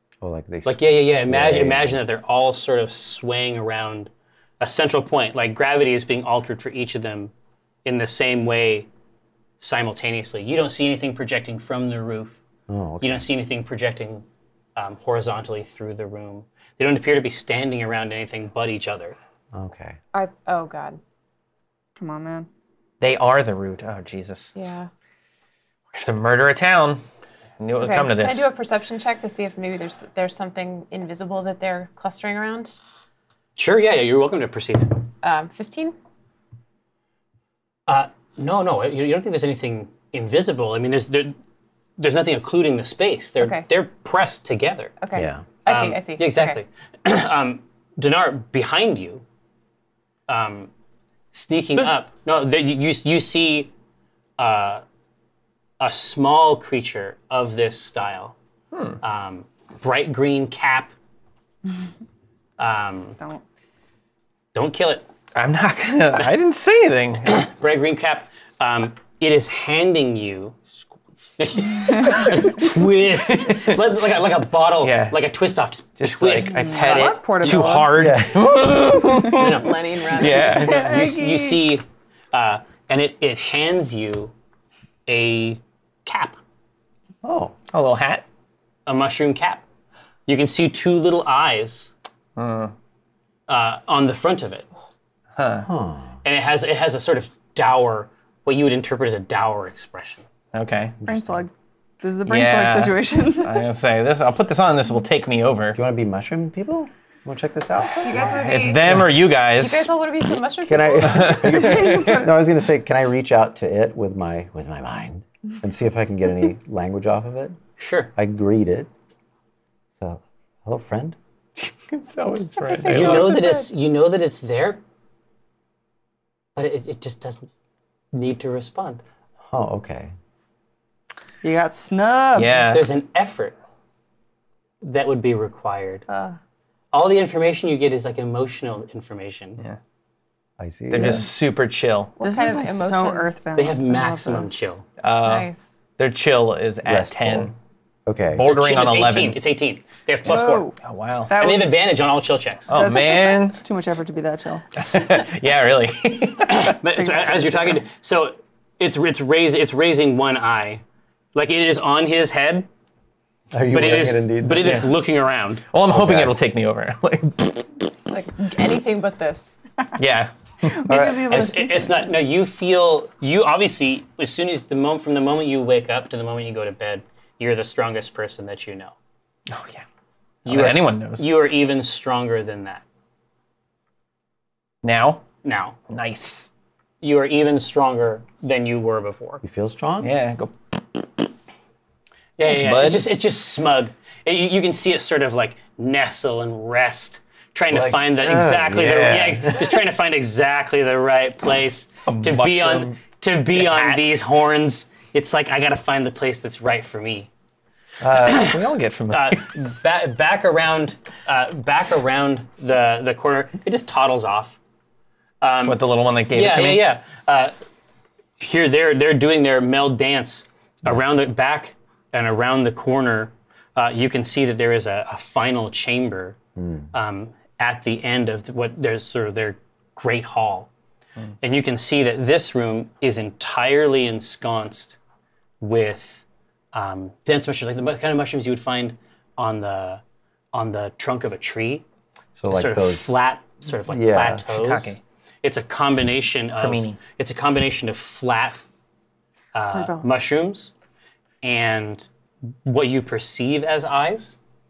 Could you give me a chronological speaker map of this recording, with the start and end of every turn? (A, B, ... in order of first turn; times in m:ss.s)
0:00.2-0:02.0 A
0:00.7-0:07.3 B
0:07.8-0:08.9 B
0:09.6-0:12.4 B
0:12.7-0:13.3 A
0:13.0-0:14.2 B
0:14.8-0:19.2 B
0:19.5-0:20.0 A
0:20.1-0:21.0 C
0:22.0-0:22.5 D
0:23.0-0:24.5 E
0:24.6-0:24.9 C
0:25.9-0:27.0 E
0:27.6-0:28.5 E
0:27.8-0:32.8 C
0:33.6-0:35.1 B
0:35.2-0:36.0 C
0:37.9-0:41.4 B
0:42.0-0:44.9 B
0:43.4-0:43.7 C
0:45.0-0:46.6 C
0:45.1-0:45.4 A
0:45.7-0:49.2 B
0:50.3-0:50.7 B
0:51.3-0:53.7 B
0:54.4-0:54.8 B
0:55.8-0:58.4 B
0:58.7-0:59.0 E
0:59.0-1:00.9 B
1:02.6-1:03.2 B
1:04.5-1:05.0 B
1:05.4-1:07.5 E
1:07.3-1:10.6 B
1:11.4-1:17.0 B
1:12.3-1:12.7 E
1:13.5-1:13.8 E
1:14.8-1:15.2 E
1:16.0-1:21.0 E
1:16.4-1:18.0 D
1:17.9-1:18.8 A
1:19.4-1:19.8 B
1:19.4-1:20.7 C
1:20.5-1:21.6 D
1:20.6-1:24.3 B
1:25.1-1:26.4 B
1:27.2-1:27.5 A
1:27.7-1:28.2 E
1:28.9-1:29.6 B
1:30.3-1:31.9 B
1:32.4-1:32.7 E
1:33.5-1:34.7 B
1:35.4-1:35.7 E
1:35.6-1:36.1 A
1:36.2-1:40.3 B
1:40.5-1:41.0 E
1:41.0-1:41.4 A
1:41.1-1:43.6 D
1:42.3-1:45.8 E
1:45.8-1:49.1 A
1:48.0-1:51.3 C
1:48.3-1:49.9 E
1:50.7-1:57.6 A
1:51.0-1:52.3 E
1:51.4-1:52.4 D
1:57.8-1:58.1 B
1:58.2-1:58.9 A
2:00.0-2:01.2 A
2:01.9-2:03.5 E
2:02.6-2:03.7 D
2:02.9-2:04.8 B
2:06.6-2:07.5 B
2:08.1-2:09.0 B
2:09.4-2:10.1 A
2:11.4-2:12.7 D
2:12.3-2:12.9 E
2:12.7-2:13.6 B
2:14.8-2:16.1 B
2:16.9-2:19.6 B
2:20.6-2:21.3 A
2:20.9-2:22.2 E
2:22.2-2:23.4 C
2:22.2-2:24.6 D
2:23.6-2:24.8 B
2:25.0-2:27.5 E
2:25.2-2:25.7 C
2:26.8-2:27.5 A
2:28.1-2:28.4 A
2:28.3-2:29.4 E
2:28.4-2:30.7 B
2:30.3-2:31.8 D
2:30.4-2:31.3 E
2:31.3-2:32.7 B
2:32.7-2:33.6 E
2:32.7-2:34.7 D
2:34.8-2:36.8 E
2:36.4-2:40.8 B
2:36.9-2:37.8 D
2:41.4-2:42.7 B
2:43.5-2:44.8 A
2:43.7-2:45.6 B
2:45.7-2:47.7 E
2:45.9-2:46.3 A
2:48.1-2:49.6 C
2:50.0-2:51.2 E
2:50.7-2:52.1 D
2:50.9-2:51.5 A
2:51.3-2:59.0 B
2:59.5-2:59.8 E
3:00.4-3:02.8 B
3:00.5-3:01.3 E
3:04.8-3:05.2 E
3:05.4-3:05.8 B
3:05.9-3:06.5 E
3:07.0-3:09.4 B
3:09.4-3:10.1 A
3:10.0-3:10.5 E
3:12.4-3:27.3 B
3:12.4-3:13.1 E
3:17.7-3:19.8 A
3:22.0-3:23.0 E
3:23.5-3:24.1 E
3:28.0-3:28.5 A
3:28.1-3:29.6 E
3:28.2-3:28.6 B
3:29.1-3:34.6 B
3:35.4-3:35.8 B
3:35.7-3:36.9 E
3:36.3-3:37.6 B
3:38.4-3:46.4 B
3:46.6-3:46.8 A
3:46.9-3:50.7 B
3:51.4-3:55.0 B
3:55.6-4:00.0 B
4:00.5-4:01.8 B
4:02.4-4:03.1 A
4:02.5-4:08.6 B
4:03.9-4:04.4 A
4:04.4-4:05.0 E
4:06.6-4:07.0 E
4:09.6-4:10.7 B
4:09.7-4:10.1 D
4:11.4-4:12.1 B
4:12.6-4:14.4 B